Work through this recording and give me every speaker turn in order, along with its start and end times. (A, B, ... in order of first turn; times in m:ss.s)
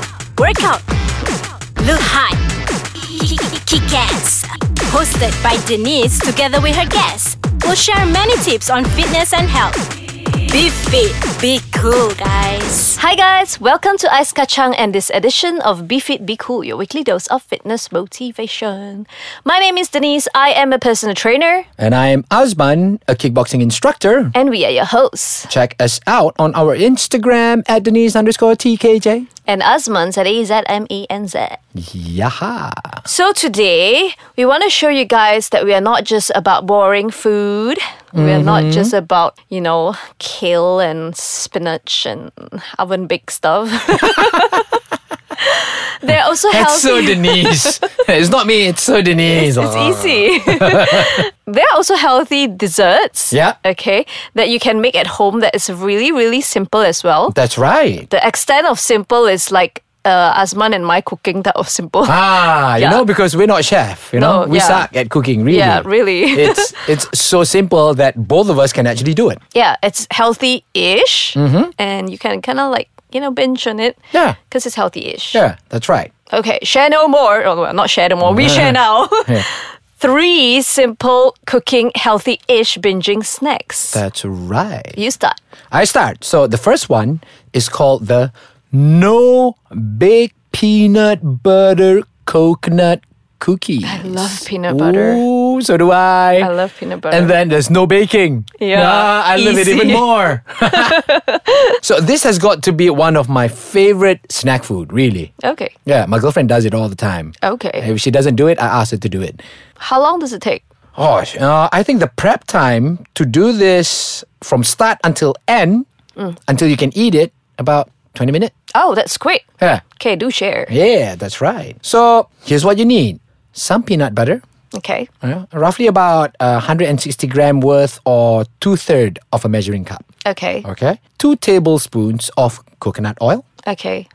0:00.4-0:00.8 A
0:01.8-0:02.4 A
0:03.2-0:09.9 A
0:10.5-0:13.0 A
0:13.0-0:21.7 B
0:21.8-0:24.3 C
0:24.3-0:25.5 B
0:25.5-0:29.2 C
0:29.4-0:31.6 B
0:31.8-0:33.0 C
0:33.0-0:44.8 B
0:38.1-0:38.9 C
0:44.0-0:44.6 C
0:45.4-0:47.8 B
0:46.5-0:51.2 C
0:49.2-0:57.3 B
0:53.3-0:53.6 C
0:57.3-0:58.1 C
0:58.1-1:03.0 B
1:02.0-1:09.4 C
1:04.2-1:04.9 B
1:05.5-1:06.9 B
1:09.5-1:15.4 B
1:11.4-1:11.7 C
1:15.3-1:16.1 C
1:16.3-1:24.0 B
1:18.2-1:19.4 C
1:23.9-1:25.0 C
1:24.9-1:25.4 B
1:25.7-1:36.5 C
1:33.8-1:35.2 B
1:36.4-1:37.4 B
1:37.1-1:41.0 C
1:38.6-1:40.1 B
1:40.6-1:41.8 B
1:41.8-1:45.3 C
1:45.4-1:45.7 B
1:45.9-1:49.4 C
1:47.4-1:47.9 B
1:49.8-1:50.6 B
1:51.0-1:55.9 C
1:56.5-1:58.5 C
1:58.7-2:00.7 B
2:00.7-2:04.4 C
2:04.7-2:05.1 B
2:05.2-2:10.0 C
2:10.2-2:10.7 B
2:10.6-2:13.4 C
2:13.7-2:14.1 B